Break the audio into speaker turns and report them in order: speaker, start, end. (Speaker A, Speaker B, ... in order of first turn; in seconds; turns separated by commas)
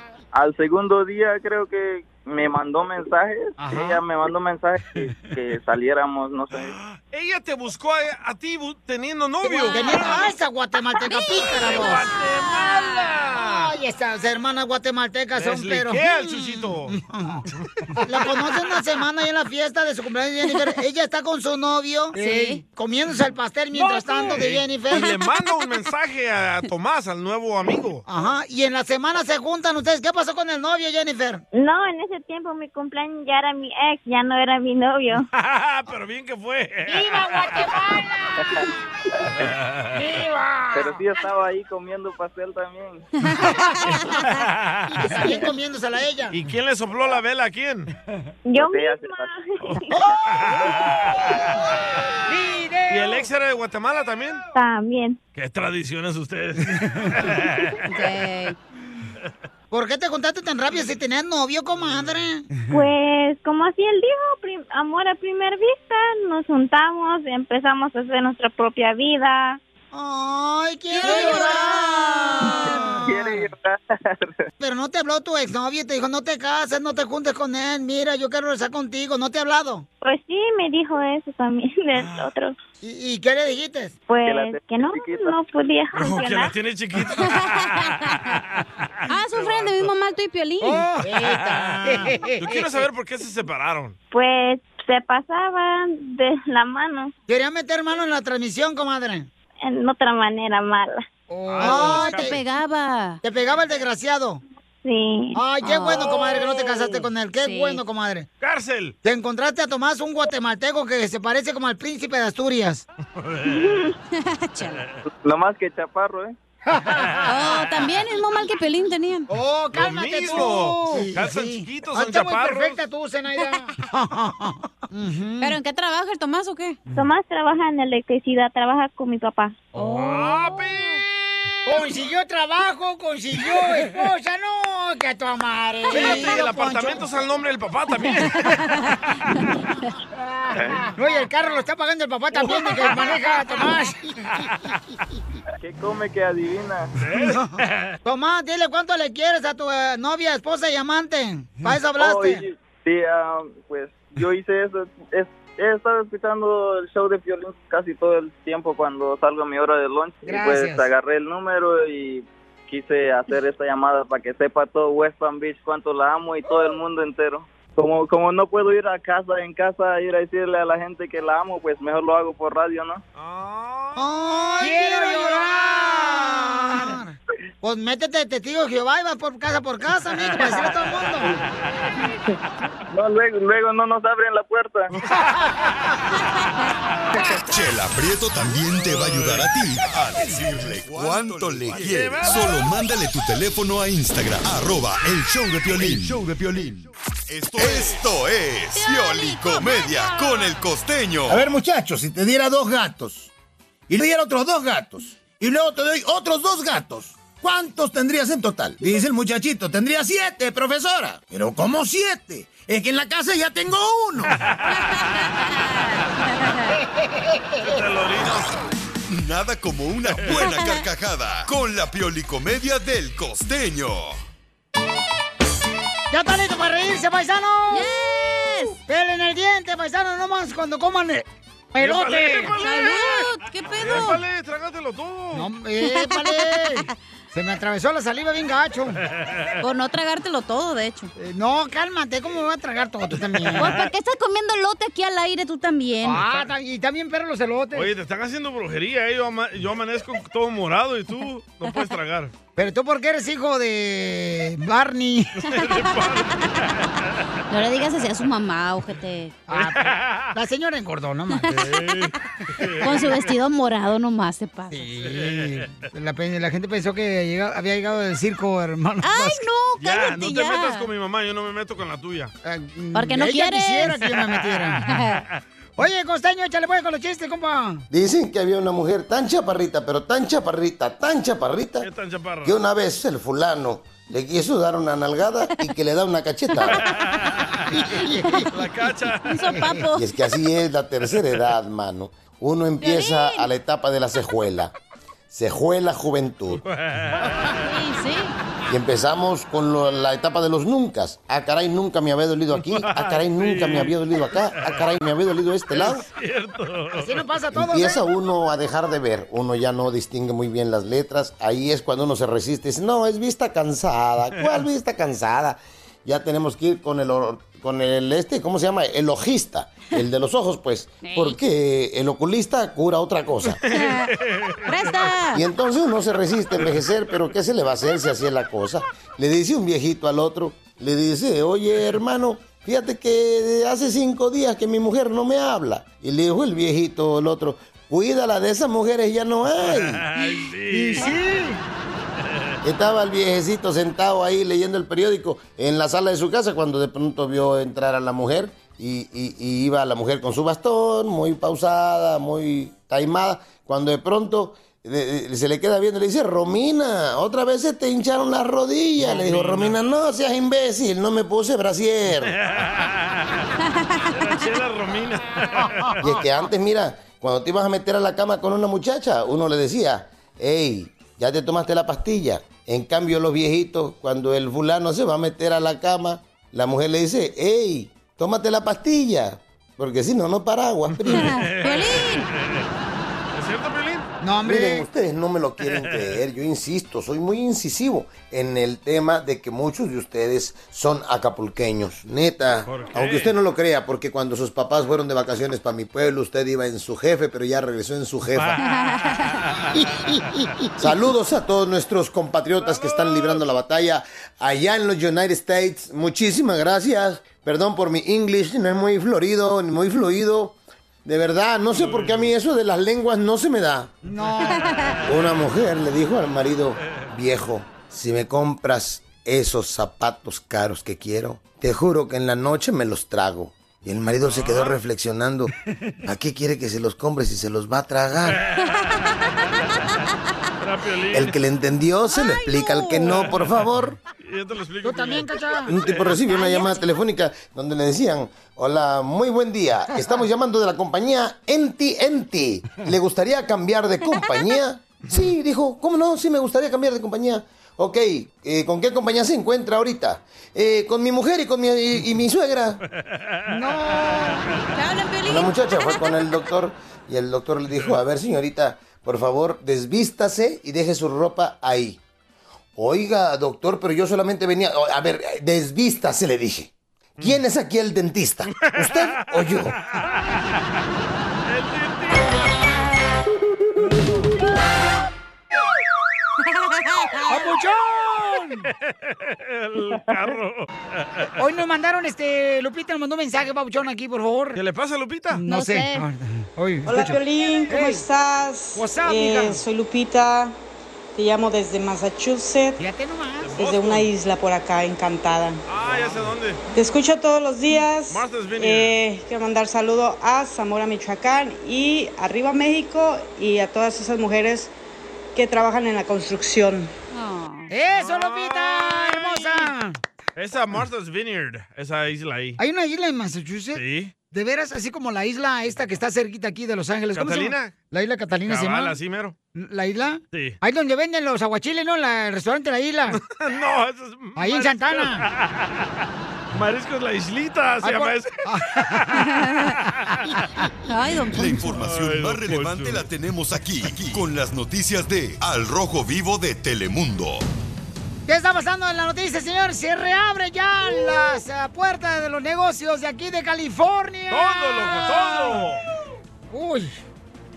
Speaker A: 0.3-6.8, Speaker B: 3.6-4.0, Speaker C: 6.5-10.3, Speaker B: 9.5-12.1, Speaker D: 9.7-10.3, Speaker D: 11.0-13.1, Speaker C: 11.4-13.7, Speaker B: 12.6-17.4, Speaker C: 15.4-17.0, Speaker B: 18.0-25.1, Speaker D: 22.1-22.6, Speaker C: 24.2-28.0, Speaker B: 28.1-31.4, Speaker E: 31.5-35.3, Speaker C: 35.3-37.8, Speaker B: 36.9-38.5, Speaker C: 39.4-40.1, Speaker B: 40.0-41.0, Speaker A: 40.7-43.1, Speaker B: 43.4-44.1, Speaker C: 44.2-45.3, Speaker B: 45.1-46.4, Speaker C: 46.3-47.9, Speaker E: 48.5-50.0, Speaker A: 48.6-49.3, Speaker C: 49.6-51.3, Speaker B: 52.3-53.3, Speaker C: 52.9-54.4, Speaker E: 54.5-55.2, Speaker C: 55.4-57.9, Speaker D: 57.9-58.6, Speaker B: 59.7-62.5, Speaker E: 62.7-69.6, Speaker B: 69.9-73.5, Speaker D: 70.9-73.0, Speaker A: 72.6-74.4, Speaker B: 74.6-79.8, Speaker E: 80.0-82.6, Speaker C: 82.0-82.2, Speaker B: 82.8-84.0, Speaker E: 84.1-86.5, Speaker A: 84.2-85.3, Speaker C: 85.9-89.9, Speaker D: 87.2-88.0, Speaker D: 89.1-90.9, Speaker B: 90.6-92.6, Speaker C: 91.1-94.0, Speaker E: 94.1-97.1, Speaker B: 97.3-99.3, Speaker E: 99.6-101.1, Speaker B: 101.3-102.4, Speaker C: 101.5-102.4, Speaker D: 101.6-103.2, Speaker B: 103.2-104.4, Speaker E: 104.8-105.4, Speaker B: 105.3-108.3, Speaker D: 105.6-106.5, Speaker D: 107.4-107.8, Speaker C: 108.4-109.0, Speaker B: 109.0-112.8, Speaker C: 113.2-113.9, Speaker E: 113.5-113.9, Speaker D: 114.1-114.8, Speaker A: 115.1-116.4, Speaker B: 116.7-117.3, Speaker D: 117.2-119.3, Speaker B: 119.3-125.6, Speaker C: 119.7-122.8, Speaker D: 125.4-126.8, Speaker E: 126.9-129.7, Speaker D: 129.8-130.8, Speaker C: 129.8-131.1, Speaker B: 131.7-137.1, Speaker D: 135.9-136.3, Speaker C: 135.9-138.7, Speaker D: 138.6-139.4, Speaker B: 141.0-144.1, Speaker C: 142.5-143.2, Speaker A: 145.6-146.9, Speaker C: 147.0-148.0, Speaker B: 147.2-152.4, Speaker A: 152.0-173.0, Speaker B: 160.3-160.9, Speaker C: 173.2-176.9, Speaker B: 174.0-181.3, Speaker A: 182.9-184.9, Speaker F: 187.5-201.4, Speaker C: 188.9-189.4, Speaker C: 190.9-192.7, Speaker D: 198.7-200.7, Speaker G: 201.3-203.3, Speaker G: 203.9-214.4, Speaker C: 214.4-214.9, Speaker D: 214.8-216.7, Speaker B: 216.8-217.6, Speaker C: 217.6-218.5, Speaker F: 219.1-224.2, Speaker C: 220.1-220.5, Speaker D: 220.3-220.9, Speaker B: 226.1-227.9, Speaker D: 227.7-228.8, Speaker B: 228.8-232.6, Speaker C: 231.8-235.5, Speaker D: 232.6-234.2, Speaker B: 235.3-239.0, Speaker D: 236.0-236.7, Speaker C: 239.2-239.6, Speaker D: 239.6-241.1, Speaker B: 241.2-243.8, Speaker D: 243.6-246.3, Speaker B: 246.0-247.9, Speaker C: 247.8-252.3, Speaker B: 252.6-255.4, Speaker C: 255.4-256.9, Speaker D: 257.5-259.4, Speaker B: 259.5-261.7, Speaker C: 259.5-260.3, Speaker C: 261.5-263.3, Speaker D: 262.8-264.9, Speaker B: 264.7-269.5, Speaker C: 265.1-265.7, Speaker D: 269.0-270.9, Speaker C: 269.8-272.3, Speaker B: 272.4-274.8, Speaker D: 272.9-274.1, Speaker D: 274.8-275.2, Speaker B: 275.8-277.9, Speaker H: 277.9-281.9, Speaker C: 281.8-282.6, Speaker H: 282.4-286.9, Speaker C: 286.7-287.9, Speaker B: 287.7-288.5, Speaker C: 288.5-289.6, Speaker D: 289.3-290.1, Speaker H: 289.9-294.7, Speaker D: 292.8-293.5, Speaker H: 295.3-296.6, Speaker C: 296.5-297.6, Speaker D: 297.6-298.3, Speaker H: 298.7-306.1, Speaker C: 302.7-303.9, Speaker C: 305.7-307.3, Speaker B: 306.9-308.0, Speaker H: 307.5-323.6, Speaker D: 321.0-321.4, Speaker D: 323.7-324.1, Speaker C: 323.7-324.9, Speaker D: 324.6-325.4, Speaker H: 325.3-340.1, Speaker C: 339.6-341.4, Speaker B: 340.2-341.6, Speaker C: 342.3-342.5, Speaker H: 342.6-362.4, Speaker C: 359.0-359.8, Speaker C: 362.2-363.4, Speaker D: 363.9-364.4, Speaker C: 364.1-366.1, Speaker H: 366.0-381.5, Speaker C: 380.9-382.7, Speaker D: 381.1-382.3, Speaker C: 383.3-384.1, Speaker B: 384.2-384.9, Speaker H: 384.4-398.6, Speaker C: 385.6-386.2, Speaker C: 392.6-393.3, Speaker C: 398.3-400.5, Speaker D: 398.7-399.2, Speaker B: 400.1-400.4, Speaker H: 400.8-413.9, Speaker C: 402.6-403.5, Speaker C: 411.7-412.3, Speaker B: 414.1-414.7, Speaker D: 414.7-415.0, Speaker H: 415.1-425.5, Speaker C: 424.2-424.8, Speaker H: 426.1-428.4, Speaker C: 428.3-429.2, Speaker C: 430.6-431.4, Speaker H: 431.1-434.0, Speaker D: 432.1-433.2, Speaker C: 433.1-433.7, Speaker C: 434.2-436.2, Speaker B: 434.8-435.7, Speaker H: 435.7-452.8, Speaker D: 436.3-436.8, Speaker C: 453.0-454.4, Speaker B: 453.5-454.5, Speaker D: 454.7-456.1, Speaker H: 455.2-462.0, Speaker H: 462.8-469.8, Speaker C: 468.6-470.2, Speaker C: 471.5-472.5, Speaker B: 477.3-478.7, Speaker C: 478.8-481.3, Speaker B: 481.4-484.6, Speaker C: 484.6-485.4, Speaker B: 485.3-488.1, Speaker D: 485.5-486.1, Speaker I: 486.9-490.6, Speaker B: 488.7-489.6, Speaker I: 491.2-492.8, Speaker B: 492.8-493.6, Speaker C: 493.4-494.1, Speaker I: 493.6-495.6, Speaker C: 495.7-496.6, Speaker I: 496.8-504.7, Speaker C: 498.1-499.0, Speaker I: 505.4-506.9, Speaker D: 507.1-507.7, Speaker B: 507.7-510.0, Speaker C: 507.9-509.7, Speaker C: 510.4-512.6, Speaker B: 512.6-519.0, Speaker C: 513.8-514.1, Speaker C: 517.1-517.7, Speaker C: 518.5-519.4, Speaker B: 519.5-523.2, Speaker C: 520.3-520.6, Speaker C: 523.1-525.9, Speaker B: 524.4-525.2, Speaker C: 526.5-530.3, Speaker B: 527.8-529.1, Speaker D: 529.3-529.7, Speaker D: 530.9-531.8, Speaker F: 531.3-537.5, Speaker C: 531.6-533.0, Speaker B: 538.3-545.6, Speaker C: 544.3-545.8, Speaker B: 546.5-547.0